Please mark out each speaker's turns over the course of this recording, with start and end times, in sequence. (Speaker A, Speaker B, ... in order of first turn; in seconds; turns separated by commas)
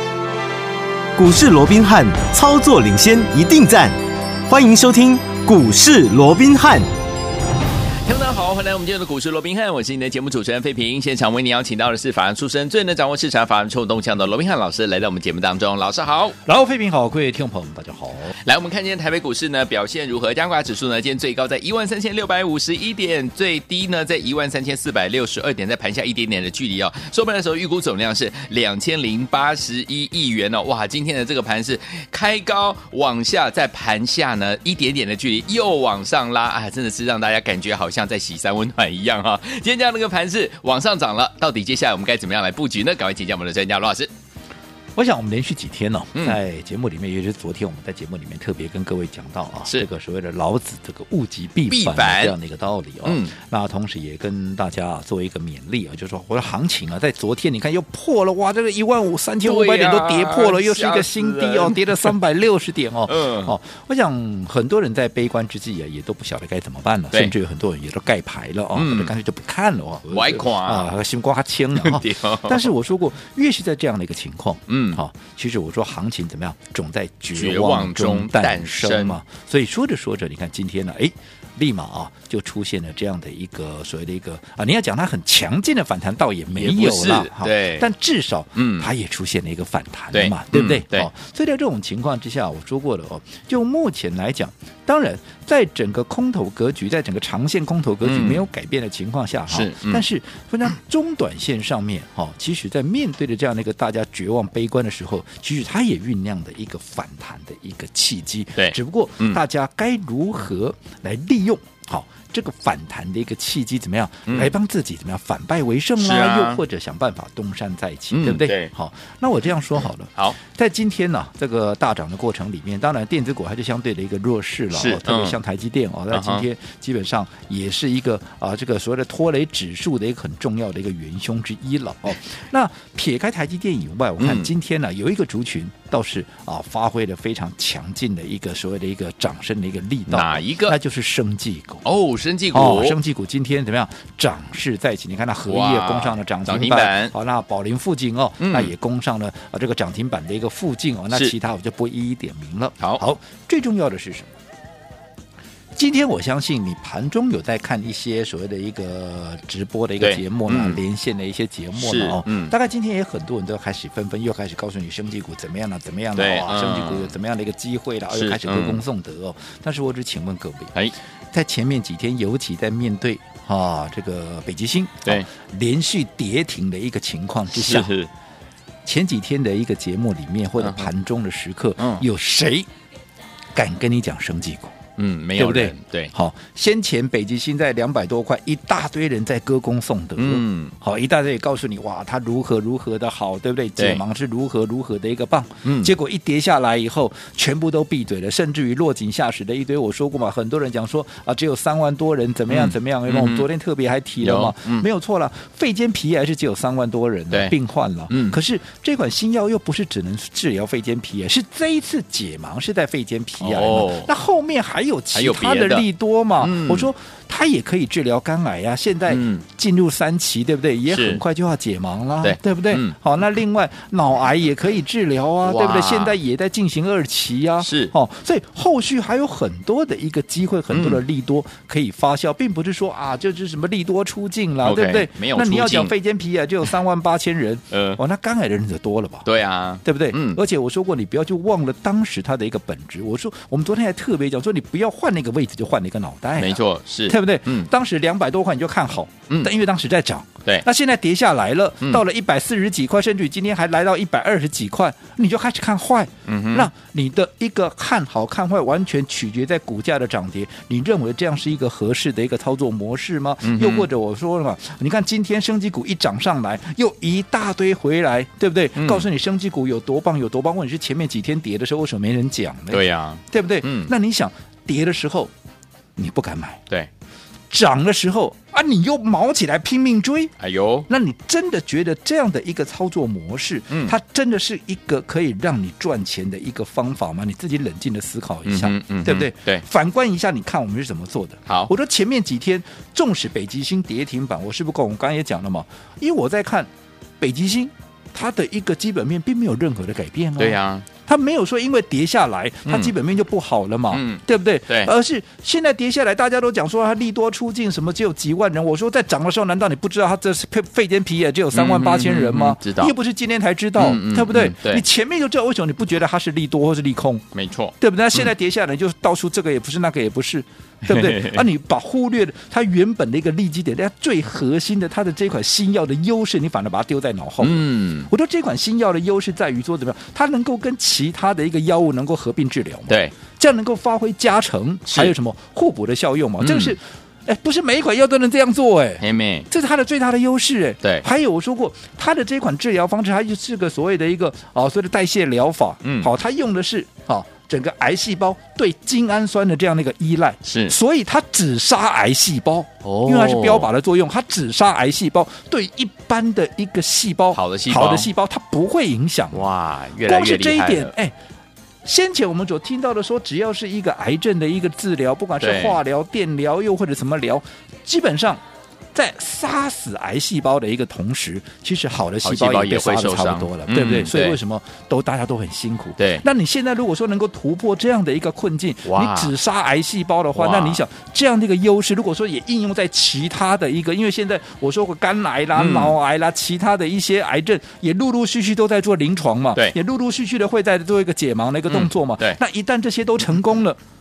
Speaker A: 1.1-4.0, Speaker A: 4.5-6.9, Speaker B: 8.0-16.4, Speaker C: 16.4-18.3, Speaker B: 18.4-44.1, Speaker C: 45.0-141.8, Speaker B: 51.7-52.3, Speaker B: 53.0-53.3, Speaker B: 59.4-62.2, Speaker B: 63.1-63.5, Speaker B: 68.7-69.1, Speaker B: 70.1-70.9, Speaker B: 71.7-72.7, Speaker B: 74.7-75.0, Speaker B: 77.3-79.2, Speaker B: 86.5-87.9, Speaker B: 88.5-88.9, Speaker B: 90.1-91.1, Speaker B: 98.0-98.4, Speaker B: 99.5-100.0, Speaker B: 108.5-109.4, Speaker B: 114.3-114.5, Speaker B: 116.0-116.6, Speaker B: 118.1-118.7, Speaker B: 124.7-125.4, Speaker B: 126.1-126.4, Speaker B: 134.2-134.5, Speaker B: 140.1-140.8, Speaker B: 141.8-143.0, Speaker C: 142.5-154.3, Speaker B: 145.5-147.1, Speaker B: 148.4-148.7, Speaker C: 155.8-170.7, Speaker B: 160.0-160.8, Speaker B: 161.8-162.5, Speaker B: 166.2-167.1, Speaker B: 168.1-168.8, Speaker C: 171.3-177.9, Speaker B: 177.5-178.1, Speaker C: 178.8-182.7, Speaker B: 180.6-180.9, Speaker B: 181.8-182.0, Speaker C: 183.5-184.8, Speaker B: 185.0-186.1, Speaker C: 185.4-239.3, Speaker B: 190.2-190.7, Speaker B: 193.8-194.0, Speaker B: 195.6-195.9, Speaker B: 202.5-203.4, Speaker B: 204.2-204.8, Speaker B: 208.1-208.4, Speaker B: 213.4-214.1, Speaker B: 215.1-215.8, Speaker B: 216.4-216.9, Speaker B: 219.1-219.4, Speaker B: 220.9-221.2, Speaker B: 222.2-222.9, Speaker B: 225.4-226.2, Speaker B: 227.6-227.9, Speaker B: 230.7-231.0, Speaker B: 234.6-235.9, Speaker B: 237.7-238.0, Speaker B: 239.2-240.4, Speaker C: 239.8-275.3, Speaker B: 246.4-247.7, Speaker B: 256.3-256.7, Speaker B: 263.4-263.9, Speaker B: 268.8-269.0, Speaker B: 272.7-273.9, Speaker C: 276.0-276.6, Speaker C: 277.5-280.3, Speaker B: 280.4-280.9, Speaker C: 280.9-296.7, Speaker B: 288.4-289.6, Speaker C: 297.2-317.2, Speaker B: 300.4-300.9, Speaker B: 302.6-302.9, Speaker B: 303.9-304.9, Speaker B: 311.5-312.9, Speaker B: 313.8-314.8, Speaker B: 317.3-318.2, Speaker C: 317.8-359.5, Speaker B: 320.9-321.4, Speaker B: 327.4-328.1, Speaker B: 332.9-333.1, Speaker B: 334.9-335.1, Speaker B: 336.4-336.7, Speaker B: 339.0-339.5, Speaker B: 345.8-346.1, Speaker B: 350.4-350.7, Speaker B: 352.8-353.7, Speaker B: 357.3-358.1, Speaker B: 359.3-360.9, Speaker C: 360.0-361.1, Speaker C: 361.8-368.4, Speaker B: 365.4-365.8, Speaker C: 368.9-393.8, Speaker B: 372.2-374.4, Speaker B: 376.0-376.2, Speaker B: 378.8-379.3, Speaker B: 380.3-380.8, Speaker B: 385.6-385.9, Speaker B: 391.7-392.4